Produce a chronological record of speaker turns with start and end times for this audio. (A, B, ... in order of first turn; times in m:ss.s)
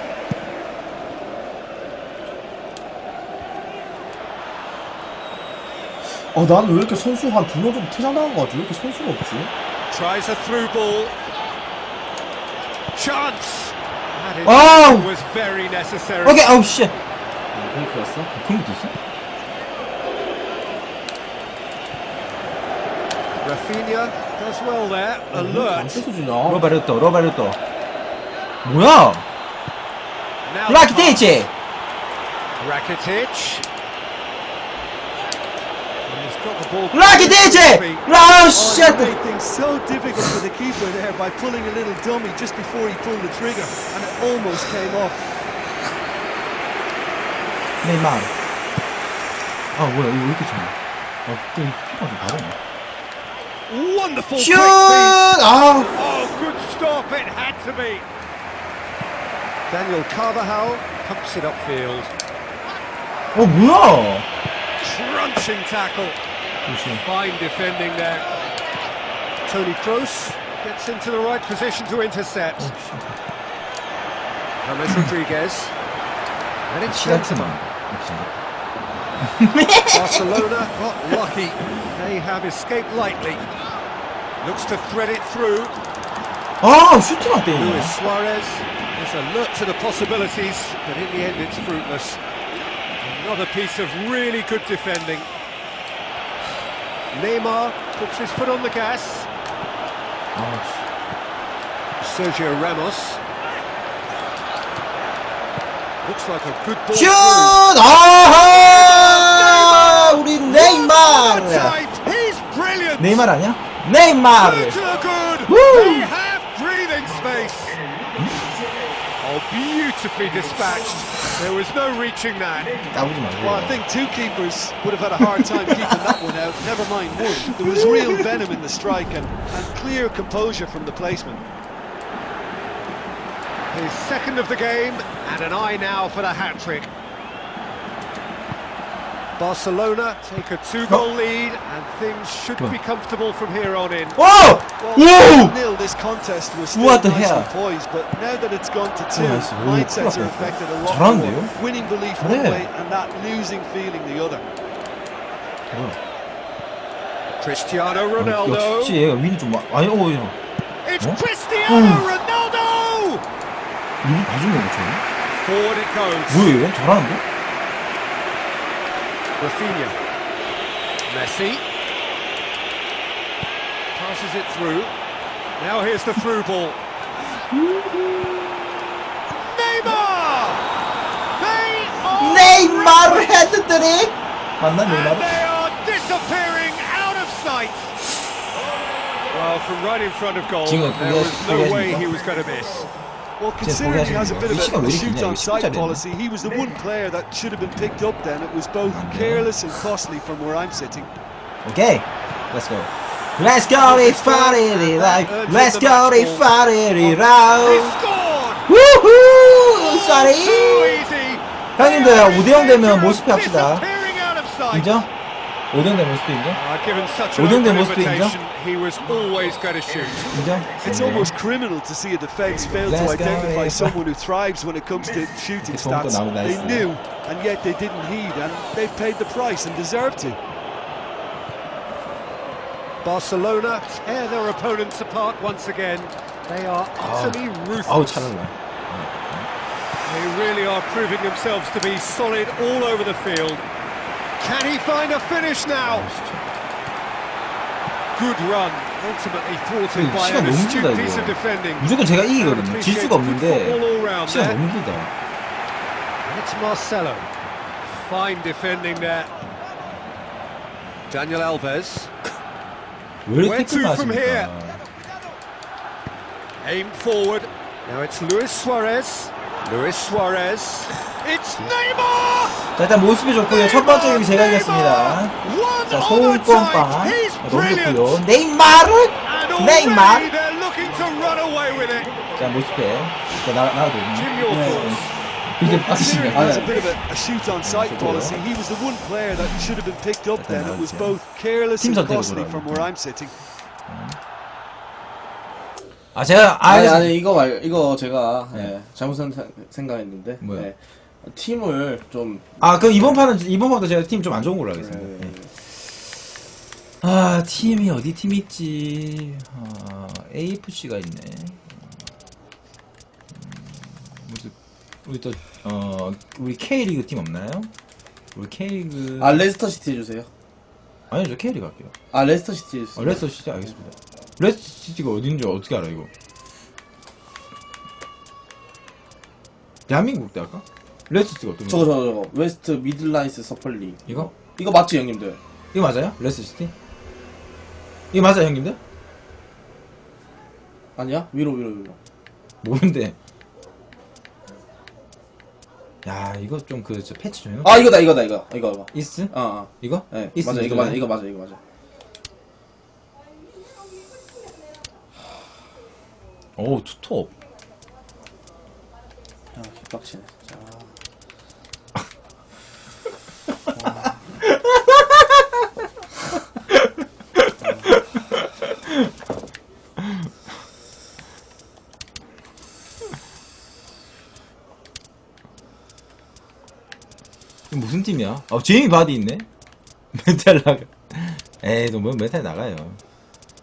0:06.3-0:09.5 A
0:09.9-0:11.1 B
0:12.9-0:16.5 B
0:14.4-0:15.1 C
0:16.2-0:16.9 C
0:17.5-0:18.3 A
0:18.3-0:18.9 C
0:23.4-0:26.0 B
0:25.3-0:26.6 A
0:26.4-0:27.6 C
0:28.6-0:29.2 C
0:30.4-0:31.4 B
0:30.7-0:31.5 C
0:32.6-0:33.6 B
0:36.1-0:38.1 B
0:36.9-0:39.1 C
0:38.5-0:45.3 D
0:47.8-0:48.3 C
0:49.7-0:50.7 C
0:51.2-0:52.6 C
0:53.7-0:58.0 B
0:54.4-0:55.9 C
0:59.7-1:02.1 B
1:03.3-1:04.2 C
1:04.8-1:06.2 B
1:06.6-1:07.0 C
1:07.0-1:08.3 B
1:09.4-1:12.7 B
1:12.6-1:13.2 C
1:14.6-1:15.7 B
1:16.7-1:17.6 B
1:16.9-1:18.3 C
1:19.2-1:20.4 C
1:19.9-1:23.5 B
1:24.4-1:25.8 B
1:26.6-1:28.0 C
1:27.6-1:32.2 B
1:33.0-1:35.3 B
1:37.1-1:39.3 B
1:40.3-1:40.8 C
1:42.0-1:43.2 B
1:46.0-1:47.6 B
1:46.9-1:51.8 C
1:48.5-1:53.3 B
1:53.0-1:54.8 C
1:54.4-1:57.8 B
1:55.4-1:56.1 C
1:59.2-2:02.8 B
2:02.9-2:03.8 C
2:03.4-2:11.4 D
2:05.4-2:06.0 C
2:07.5-2:08.2 C
2:13.7-2:16.9 B
2:19.4-2:24.2 B
2:24.2-2:25.6 C
2:24.8-2:34.5 D
2:26.7-2:27.5 C
2:29.1-2:31.5 C
2:32.2-2:32.7 C
2:35.7-2:36.0 C
2:37.4-2:39.0 B
2:38.2-2:40.4 C
2:40.8-2:43.2 B
2:41.0-2:42.1 C
2:44.0-2:45.0 C
2:45.3-2:46.5 B
2:46.3-2:47.2 C
2:49.4-2:50.0 B
2:51.1-2:51.6 B
2:53.9-2:54.9 B
2:55.6-2:56.8 B
2:57.5-2:58.8 C
2:59.3-3:00.6 B
3:01.4-3:03.3 B
3:02.2-3:05.3 C
3:04.8-3:08.0 B
3:09.3-3:12.9 B
3:10.6-3:12.1 C
3:13.4-3:21.1 D
3:13.6-3:16.0 C
3:18.8-3:19.5 C
3:21.6-3:28.0 C
3:23.8-3:26.5 B
3:27.0-3:28.7 B
3:28.7-3:31.0 C
3:29.8-3:35.0 B
3:31.8-3:33.8 C
3:34.7-3:35.1 C
3:35.7-3:36.6 C
3:36.5-3:40.5 B
3:37.4-3:38.4 C
3:40.3-3:41.3 C
3:40.8-3:50.4 D
3:42.8-3:44.0 C
3:45.6-3:46.9 C
3:53.0-3:58.3 B
3:57.0-3:59.5 C
4:00.0-4:03.6 B
4:04.4-4:06.1 B
4:05.9-4:06.5 C
4:08.1-4:14.6 B
4:09.9-4:15.1 C
4:16.2-4:17.3 B
4:17.8-4:19.3 B
4:21.1-4:22.1 B
4:23.2-4:24.8 C
4:23.4-4:24.5 B
4:26.6-4:32.6 B
4:32.7-4:35.3 C
4:33.5-4:38.2 B
4:35.9-4:40.3 C
4:39.2-4:42.3 B
4:42.3-4:46.8 C
4:44.1-4:45.2 B
4:44.4-4:44.9 A
4:45.6-4:53.4 D
4:46.3-4:46.8 A
4:47.6-4:48.4 C
4:50.4-4:51.2 C
4:51.8-4:52.9 C
4:53.9-4:54.2 C
4:56.1-4:57.2 C
4:56.6-5:03.2 A
5:00.4-5:00.7 C
5:02.6-5:05.3 C
5:04.8-5:05.5 A
5:07.0-5:11.8 C
5:13.3-5:14.5 C
5:15.0-5:17.7 C
5:18.3-5:19.5 C
5:19.2-5:20.3 A
5:21.1-5:21.9 C
5:22.1-5:23.2 A
5:22.9-5:26.1 C
5:29.9-5:31.9 C
5:31.7-5:35.4 A
5:35.7-5:36.7 C
5:38.1-5:38.8 C
5:41.0-5:42.0 A
5:42.6-5:43.2 C
5:46.0-5:48.0 C
5:47.6-5:51.6 A
5:48.9-5:51.1 C
5:56.6-5:57.3 C
5:59.5-6:00.9 A
6:03.7-6:04.2 A
6:04.8-6:05.4 C
6:07.6-6:08.0 A
6:10.0-6:10.3 C
6:17.7-6:19.4 C
6:20.1-6:23.0 C